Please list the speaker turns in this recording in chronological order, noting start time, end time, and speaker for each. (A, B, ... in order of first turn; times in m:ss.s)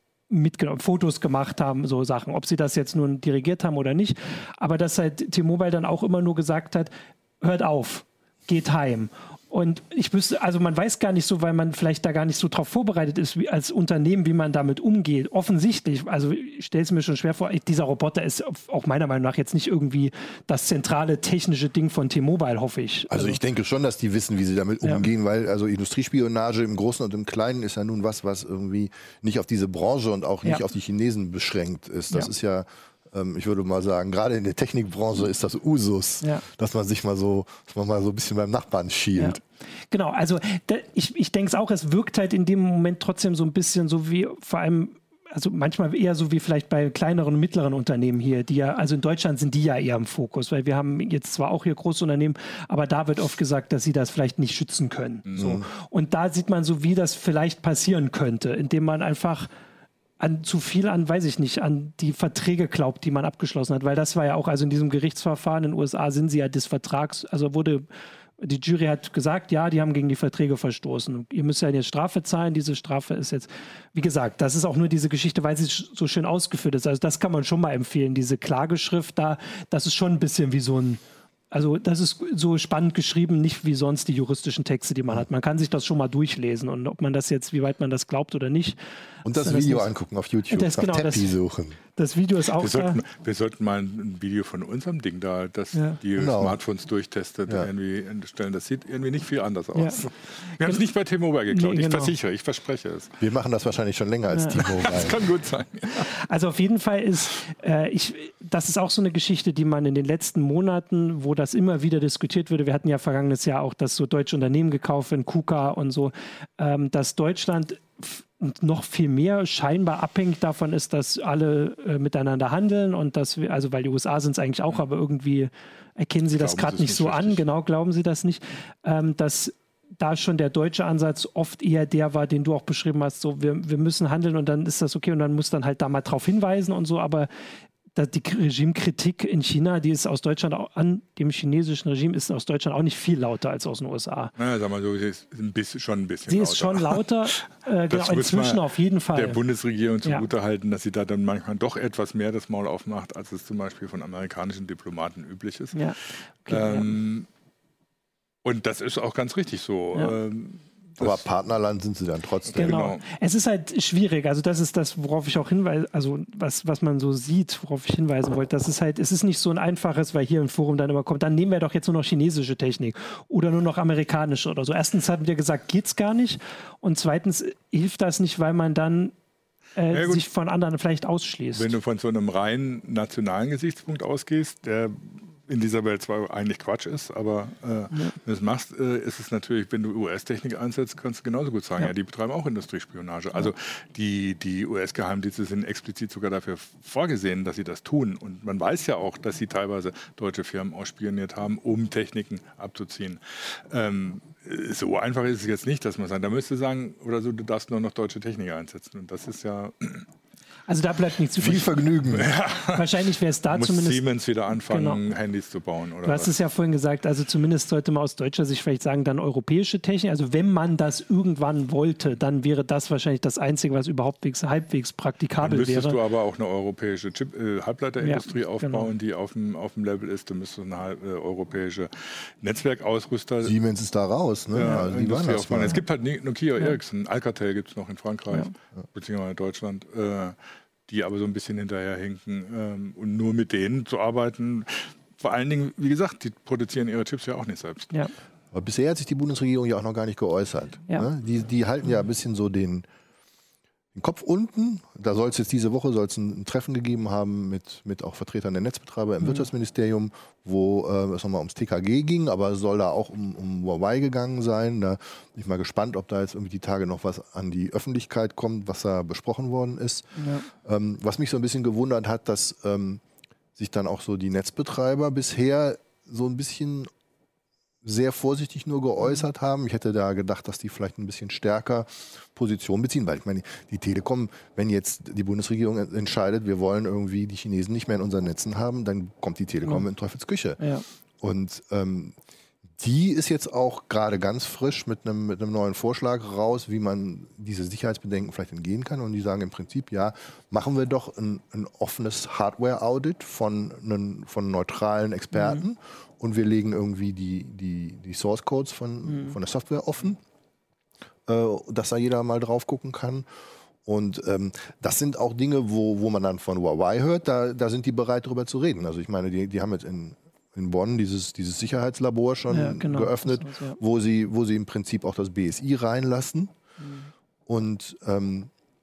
0:00.3-0:23.4 A
0:23.1-0:39.4 B
0:24.8-0:25.1 A
0:39.9-0:59.5 A
0:55.3-0:55.6 B
1:00.2-1:07.8 A
1:08.4-1:28.8 A
1:29.2-1:31.8 B
1:29.3-1:29.9 A
1:30.5-1:31.3 A
1:31.9-1:33.0 A
1:32.5-1:43.2 C
1:35.7-1:36.0 A
1:36.2-1:36.6 B
1:39.7-1:40.0 A
1:41.5-1:42.1 A
1:43.2-1:45.2 B
1:44.3-1:44.6 A
1:44.6-1:46.1 C
1:45.9-2:17.3 A
2:06.3-2:07.4 C
2:17.9-2:24.3 A
2:24.4-2:27.0 C
2:26.3-2:29.4 A
2:27.9-2:37.3 C
2:35.7-2:36.9 A
2:38.4-2:41.2 C
2:41.0-2:42.8 B
2:42.5-2:43.0 C
2:42.6-2:59.1 A
2:59.8-3:01.7 A
2:59.9-3:00.2 C
3:01.5-3:30.1 C
3:30.7-3:31.8 A
3:31.4-3:32.3 B
3:32.1-3:36.3 C
3:32.7-3:34.0 A
3:34.5-3:35.0 A
3:36.0-3:46.0 A
3:45.4-3:53.5 C
3:48.0-3:48.9 A
3:53.4-3:55.8 B
3:54.5-4:00.4 C
4:00.9-4:08.0 C
4:08.5-4:12.8 B
4:13.9-4:33.0 B
4:30.2-4:30.5 A
4:33.6-4:36.9 B
4:37.8-4:50.6 B
4:50.6-4:50.8 A
4:51.2-4:52.2 B
4:52.8-5:10.2 B
5:05.4-5:05.6 A
5:09.1-5:09.4 A
5:11.3-5:13.3 B
5:13.8-5:26.5 B
5:22.5-5:23.8 A
5:26.8-5:27.1 A
5:27.5-5:28.5 B